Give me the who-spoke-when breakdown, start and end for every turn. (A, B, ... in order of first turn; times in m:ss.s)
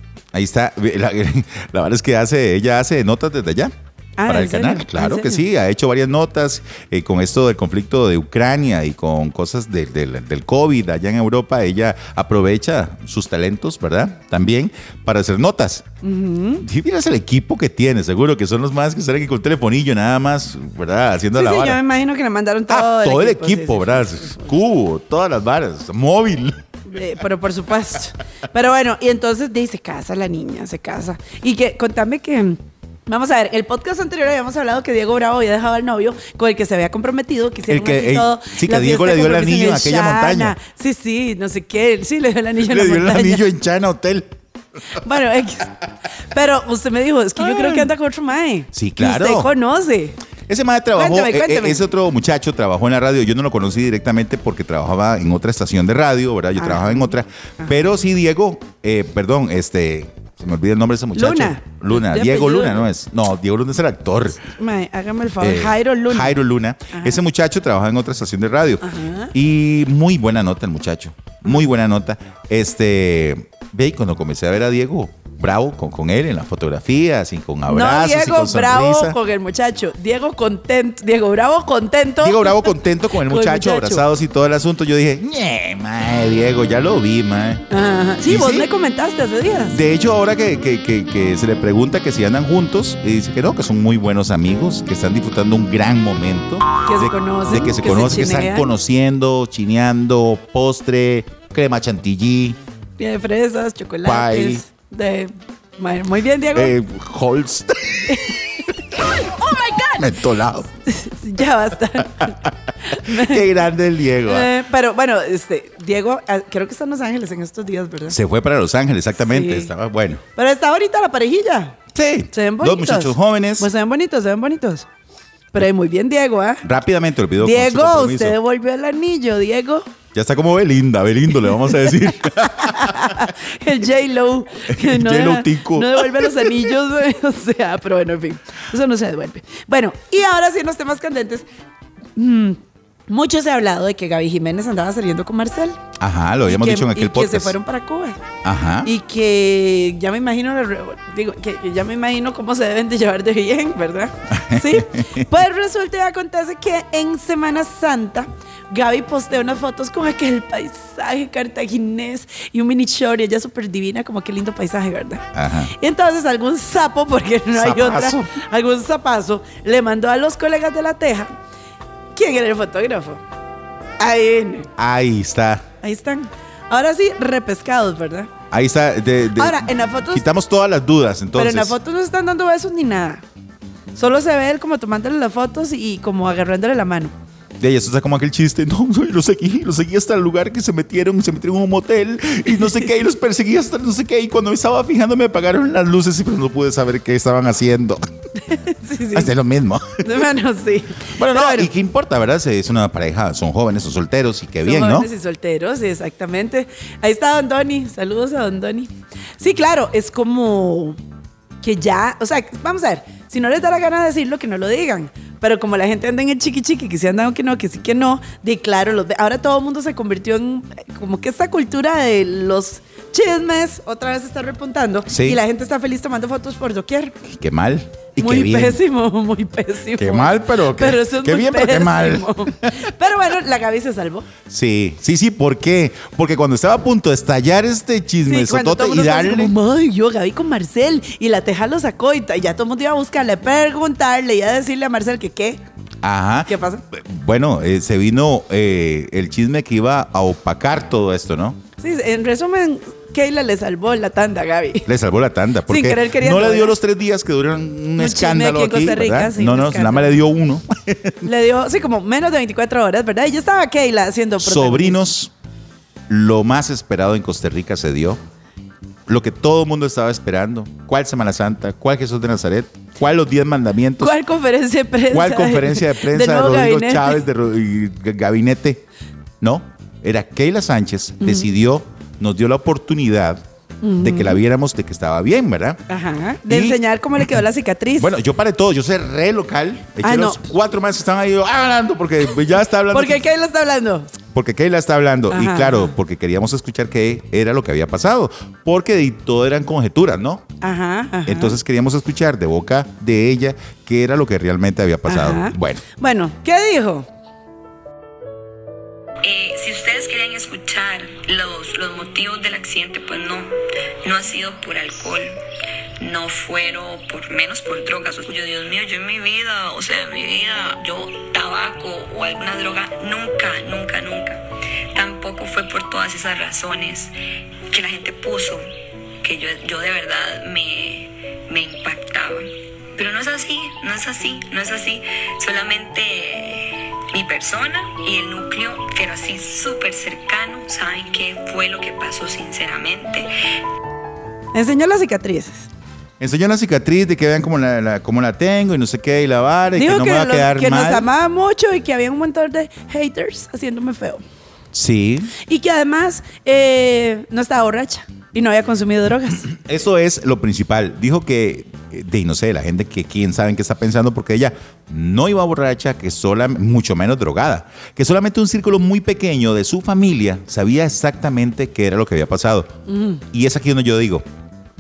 0:00.3-0:03.7 A
0:04.2-0:05.4 B
0:04.3-0:15.9 A
0:16.0-0:16.6 B
0:16.6-0:21.8 A
0:21.3-0:24.5 B
0:22.7-0:26.6 A
0:26.9-0:43.4 B
0:37.7-0:40.6 A
0:42.6-0:44.4 A
0:45.0-0:50.2 B
0:47.4-0:47.9 A
0:48.7-0:49.5 A
0:50.5-1:04.4 A
0:51.0-0:51.9 B
0:56.6-0:57.7 B
1:01.2-1:02.9 B
1:04.6-1:06.4 B
1:05.4-1:19.2 A
1:06.9-1:07.2 B
1:08.8-1:09.3 B
1:17.7-1:24.0 B
1:22.2-1:27.6 A
1:27.7-1:29.8 B
1:28.2-1:28.7 A
1:29.7-1:42.6 A
1:36.8-1:38.7 B
1:43.0-1:46.8 B
1:44.0-1:44.6 A
1:46.5-1:48.6 A
1:48.1-1:50.2 B
1:50.0-1:50.7 A
1:50.8-1:53.5 B
1:52.2-1:54.5 A
1:54.2-1:58.2 B
1:58.1-2:00.2 A
1:59.2-1:59.7 B
2:00.4-2:01.8 B
2:01.9-2:03.7 A
2:02.3-2:04.9 B
2:05.5-2:06.6 B
2:06.6-2:08.4 A
2:07.4-2:09.9 B
2:10.1-2:13.3 A
2:11.5-2:21.4 B
2:14.7-2:16.7 A
2:22.2-2:25.8 B
2:26.0-2:27.6 A
2:26.5-2:28.2 B
2:28.4-2:28.9 A
2:28.8-2:51.3 B
2:34.3-2:35.3 A
2:45.3-2:45.7 A
2:47.5-2:48.3 A
2:52.2-2:53.2 B
2:54.0-2:54.7 B
2:54.8-2:55.6 A
2:55.8-2:58.3 B
2:58.5-3:01.8 A
2:59.4-3:00.2 B
3:01.4-3:03.2 B
3:04.0-3:07.1 B
3:07.6-3:18.0 A
3:18.4-3:19.3 B
3:19.1-3:20.2 A
3:20.0-3:21.7 B
3:21.1-3:25.1 A
3:24.6-3:31.0 B
3:31.6-3:47.2 B
3:45.1-3:45.4 A
3:47.3-3:48.8 A
3:48.2-3:54.3 B
3:50.0-3:52.9 A
3:54.5-3:59.5 A
3:58.3-4:05.6 B
4:06.0-4:11.6 A
4:06.5-4:06.8 B
4:11.8-4:14.9 B
4:14.9-4:21.2 A
4:15.7-4:16.8 B
4:18.0-4:20.2 B
4:21.2-4:25.0 B
4:24.4-4:25.3 A
4:26.1-4:28.2 A
4:29.1-4:34.2 A
4:34.0-4:37.2 B
4:35.1-4:38.8 A
4:39.4-4:43.4 A
4:41.2-4:41.5 B
4:43.8-4:44.4 B
4:44.0-4:45.8 A
4:45.9-4:48.1 B
4:46.5-4:47.4 A
4:48.0-4:53.2 A
4:50.0-4:50.4 B
4:52.9-4:54.2 B
4:54.3-5:00.4 A
4:55.3-4:56.0 B
5:00.6-5:01.6 B
5:01.3-5:05.8 A
5:05.1-5:07.1 B
5:09.2-5:15.4 C
5:16.0-5:27.2 C
5:27.7-5:28.7 C
5:29.2-5:43.6 C
5:44.5-5:45.7 B
5:46.2-5:51.1 A
5:49.8-5:54.2 B
5:54.7-5:55.3 A
5:55.4-5:59.5 B
5:59.4-6:12.7 A
6:12.9-6:13.2 B
6:13.3-6:14.2 A